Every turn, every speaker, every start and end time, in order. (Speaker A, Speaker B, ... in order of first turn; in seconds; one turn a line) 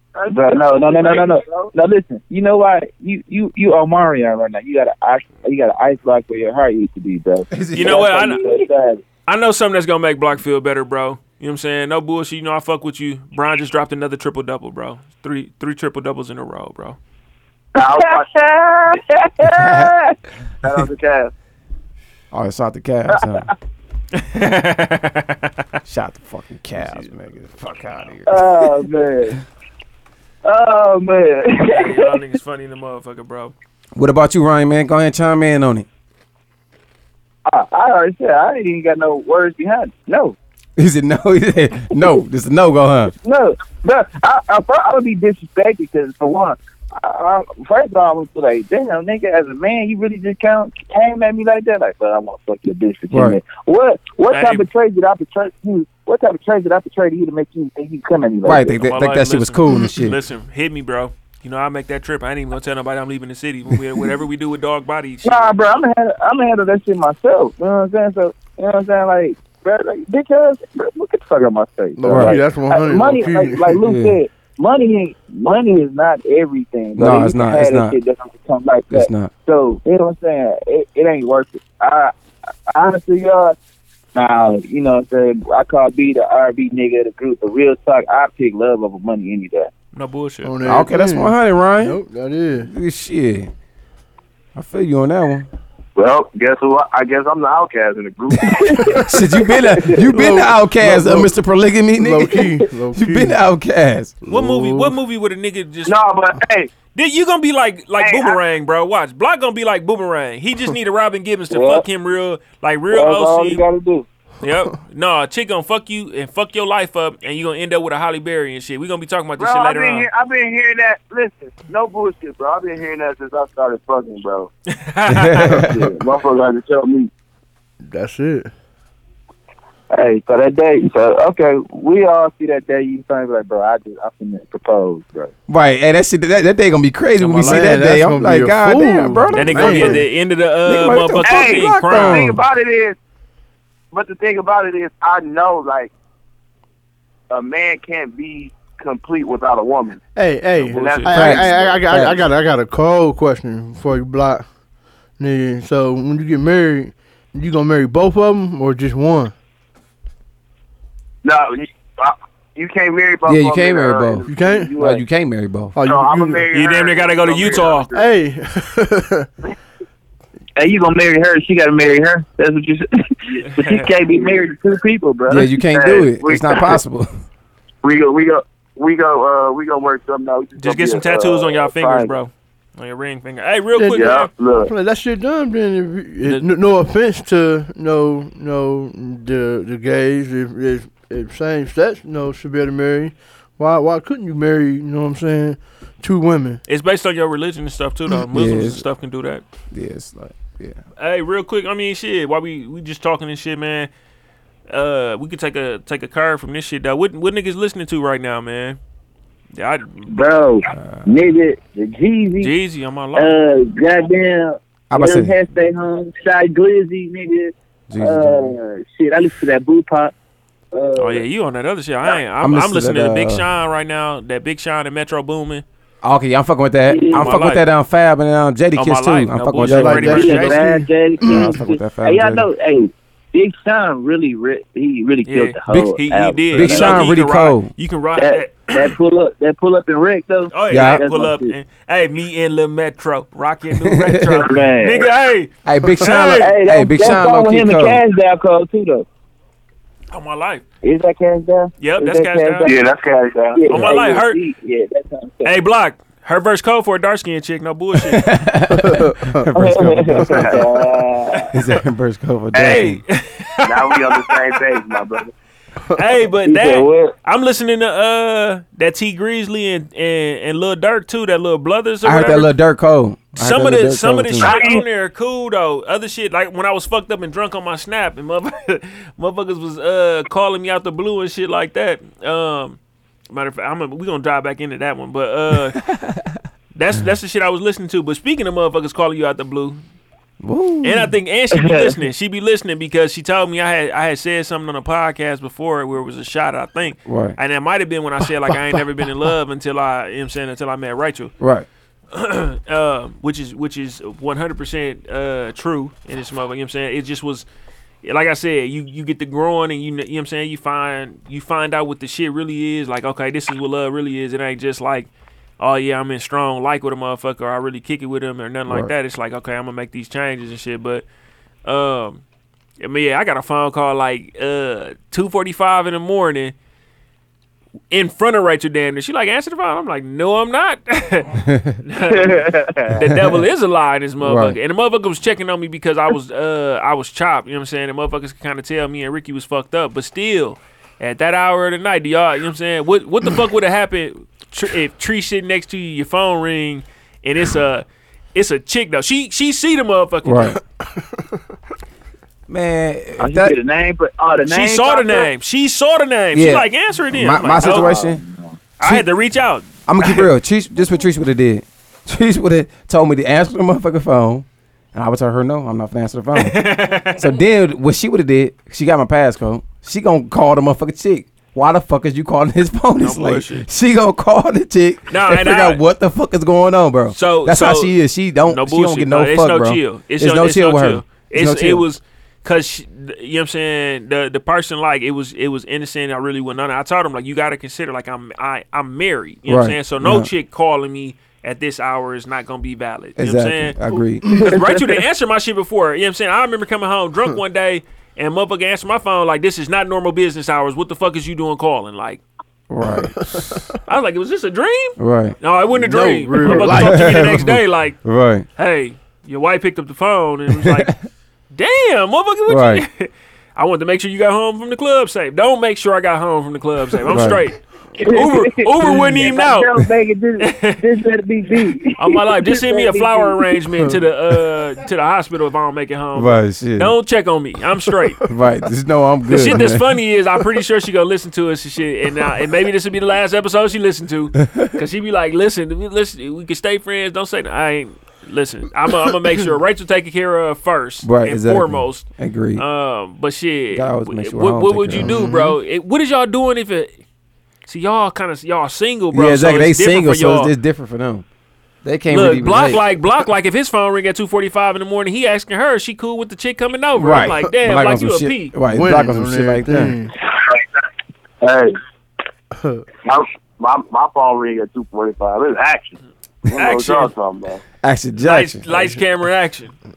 Speaker A: 0.1-1.7
Speaker B: 0.3-9.0
Speaker C: 7.5-8.1
Speaker D: 7.7-8.4
Speaker D: 9.3-17.0
Speaker A: 17.8-18.3
Speaker B: 17.8-20.1
Speaker C: 19.5-19.9
Speaker A: 20.6-21.3
Speaker C: 22.3-23.5
Speaker D: 24.1-25.5
Speaker C: 25.9-28.7
Speaker B: 28.3-29.4
Speaker B: 30.4-32.2
Speaker D: 31.7-33.5
Speaker C: 34.0-35.9
Speaker B: 37.5-40.4
Speaker C: 40.8-43.1
Speaker B: 43.2-58.8
Speaker C: 53.1-53.4
Speaker D: 54.3-54.6
Speaker C: 58.4-60.2
Speaker D: 58.8-65.5
Speaker B: 65.2-82.1
Speaker E: 72.0-73.8
Speaker C: 72.1-72.4
Speaker C: 73.8-74.2
Speaker C: 77.0-78.0
Speaker C: 78.9-79.3
Speaker B: 82.7-83.6
Speaker B: 84.2-89.7
Speaker D: 90.0-90.6
Speaker E: 90.4-92.7
Speaker C: 90.7-92.0
Speaker C: 92.7-93.5
Speaker C: 94.5-95.5
Speaker A: 96.0-99.9
Speaker C: 98.5-104.1
Speaker E: 100.1-101.3
Speaker E: 102.0-103.4
Speaker E: 104.2-105.0
Speaker D: 104.3-106.0
Speaker A: 105.9-106.7
Speaker D: 107.0-113.6
Speaker A: 108.0-108.4
Speaker B: 111.5-111.8
Speaker B: 112.9-114.1
Speaker D: 114.4-120.1
Speaker A: 119.4-124.5
Speaker D: 124.8-125.6
Speaker C: 125.1-125.9
Speaker A: 125.3-126.8
Speaker B: 126.4-127.1
Speaker E: 127.9-128.5
Speaker B: 129.9-135.3
Speaker C: 135.5-140.1
Speaker D: 137.2-137.7
Speaker E: 137.4-140.0
Speaker D: 139.3-142.3
Speaker C: 140.7-142.4
Speaker A: 141.2-143.0
Speaker A: 143.9-145.9
Speaker A: 147.3-150.0
Speaker E: 150.2-154.5
Speaker A: 150.6-152.1
Speaker C: 151.1-152.2
Speaker E: 155.2-159.3
Speaker A: 161.2-165.0
Speaker C: 163.3-165.8
Speaker E: 164.3-164.7
Speaker E: 165.8-166.5
Speaker A: 165.8-168.1
Speaker D: 166.5-167.9
Speaker E: 167.9-169.3
Speaker B: 170.6-175.5
Speaker D: 173.6-173.9
Speaker C: 175.3-177.1
Speaker A: 175.7-176.8
Speaker A: 177.8-182.1
Speaker D: 180.6-184.3
Speaker E: 183.8-184.1
Speaker A: 183.9-184.7
Speaker E: 184.6-196.6
Speaker D: 196.7-199.4
Speaker C: 198.3-198.8
Speaker C: 199.7-200.8
Speaker D: 201.0-203.9
Speaker D: 204.7-208.8
Speaker D: 209.5-210.4
Speaker B: 210.1-212.5
Speaker D: 212.4-213.3
Speaker B: 213.2-220.1
Speaker C: 214.9-215.3
Speaker C: 217.9-218.4
Speaker B: 220.7-221.2
Speaker D: 221.0-225.6
Speaker C: 222.4-223.4
Speaker C: 226.0-230.5
Speaker B: 226.9-227.3
Speaker D: 227.1-227.7
Speaker D: 228.8-230.7
Speaker E: 229.6-231.5
Speaker B: 230.1-237.1
Speaker C: 231.2-232.5
Speaker D: 235.3-238.9
Speaker C: 235.7-236.0
Speaker C: 236.5-237.7
Speaker B: 238.2-241.6
Speaker D: 240.5-246.5
Speaker C: 240.7-241.0
Speaker C: 243.8-244.4
Speaker B: 244.4-245.1
Speaker C: 245.7-248.0
Speaker B: 246.4-249.1
Speaker D: 250.1-250.6
Speaker B: 250.8-252.8
Speaker D: 251.8-252.7
Speaker A: 252.6-253.8
Speaker B: 253.5-255.6
Speaker D: 253.7-254.4
Speaker D: 255.4-258.2
Speaker C: 258.0-260.6
Speaker E: 258.7-259.4
Speaker B: 259.6-261.5
Speaker A: 260.3-260.6
Speaker C: 261.5-263.0
Speaker A: 262.5-262.9
Speaker D: 262.6-264.6
Speaker A: 263.6-265.3
Speaker D: 265.9-272.5
Speaker B: 266.5-267.1
Speaker C: 272.0-274.5
Speaker D: 273.4-282.8
Speaker A: 274.4-274.7
Speaker B: 274.4-274.8
Speaker D: 283.3-285.8
Speaker C: 285.8-286.4
Speaker D: 286.8-289.8
Speaker C: 290.4-291.1
Speaker D: 290.8-301.3
Speaker B: 291.5-291.9
Speaker C: 297.1-297.4
Speaker C: 301.4-301.7
Speaker D: 302.1-307.5
Speaker D: 308.0-321.0
Speaker D: 321.6-322.2
Speaker D: 322.8-326.5
Speaker D: 327.9-350.6
Speaker C: 331.4-331.8
Speaker B: 332.1-332.9
Speaker C: 334.2-334.6
Speaker C: 350.2-350.6
Speaker E: 350.9-351.2
Speaker C: 352.5-353.6
Speaker B: 353.2-355.3
Speaker D: 354.5-357.9
Speaker C: 356.3-358.2
Speaker B: 357.6-358.6
Speaker D: 358.8-360.3
Speaker C: 359.9-381.8
Speaker D: 366.4-367.3
Speaker D: 373.0-373.6
Speaker D: 375.1-375.8
Speaker D: 377.1-377.9
Speaker D: 378.5-393.8
Speaker C: 389.5-390.3
Speaker C: 393.2-394.2
Speaker E: 394.2-394.6
Speaker D: 394.4-402.2
Speaker C: 402.7-403.6
Speaker E: 402.9-403.8
Speaker D: 403.9-419.9
Speaker C: 405.0-405.4
Speaker E: 405.7-407.4
Speaker C: 406.7-408.4
Speaker C: 412.5-412.8
Speaker C: 417.1-417.4
Speaker B: 418.0-423.6
Speaker D: 420.4-420.8
Speaker D: 422.0-428.2
Speaker C: 426.1-427.0
Speaker C: 428.3-429.8
Speaker D: 429.3-447.0
Speaker C: 434.4-434.7
Speaker C: 441.0-442.6
Speaker C: 443.7-445.3
Speaker E: 445.0-445.6
Speaker D: 447.7-450.5
Speaker C: 449.1-451.3
Speaker C: 451.8-452.8
Speaker D: 452.1-458.6
Speaker C: 457.0-460.0
Speaker E: 458.7-460.1
Speaker A: 460.2-460.6
Speaker A: 461.4-461.8
Speaker E: 462.5-462.9
Speaker A: 463.0-466.0
Speaker A: 466.5-467.6
Speaker D: 466.5-467.1
Speaker C: 467.8-468.6
Speaker D: 468.2-469.7
Speaker E: 468.7-469.0